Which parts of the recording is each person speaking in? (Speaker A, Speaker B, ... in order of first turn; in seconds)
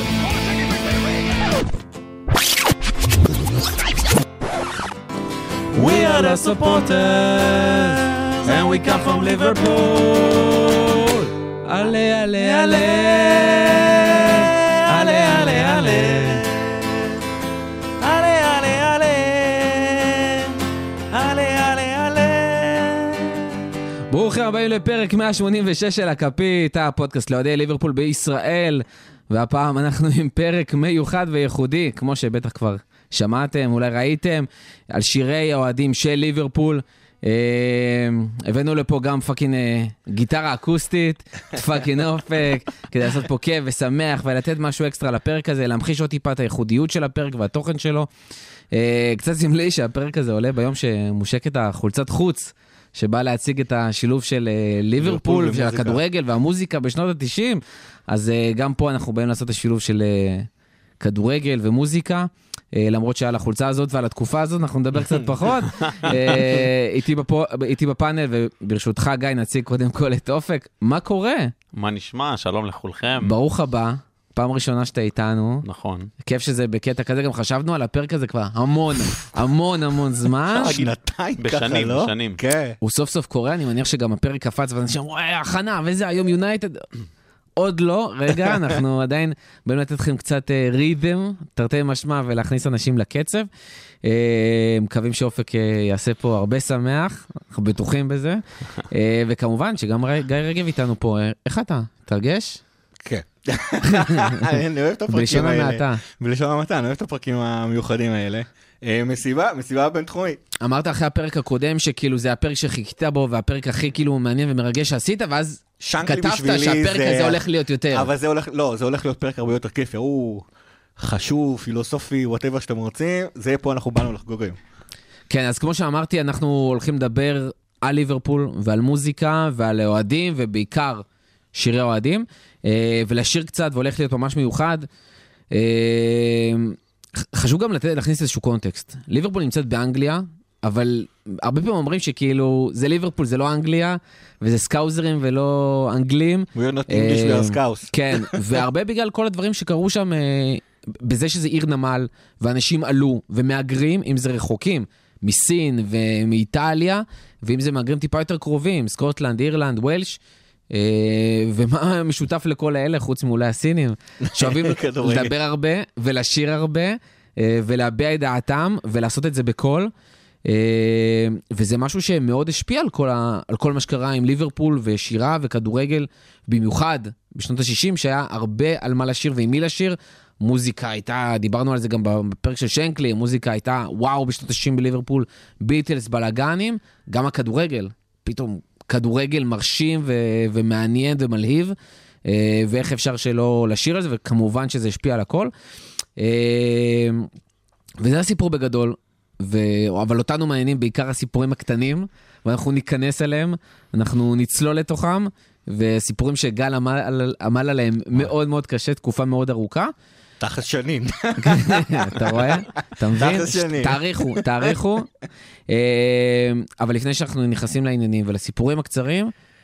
Speaker A: 0.4-0.9, 55.0-56.0, 66.0-66.3, 80.4-82.8, 88.4-88.8, 103.0-110.4, 115.8-120.5, 121.0-124.6, 146.5-148.6, 164.2-165.3, 210.4-212.5, 213.1-214.8
Speaker B: 5.7-10.5, 12.3-17.2, 18.0-23.7, 71.7-73.3, 75.6-76.1, 80.5-80.9, 81.4-82.4
Speaker C: 5.7-16.4, 24.1-48.1, 48.7-60.5, 61.0-71.5, 73.2-75.6, 76.2-80.8, 82.8-86.9, 87.6-93.5, 94.0-102.6, 103.8-104.6, 105.1-106.0, 110.6-118.1, 125.3-134.9, 135.5-160.2, 160.7-169.9, 170.4-191.7, 192.2-195.5, 196.2-197.3, 198.0-209.9, 211.4-215.1, 215.7-219.3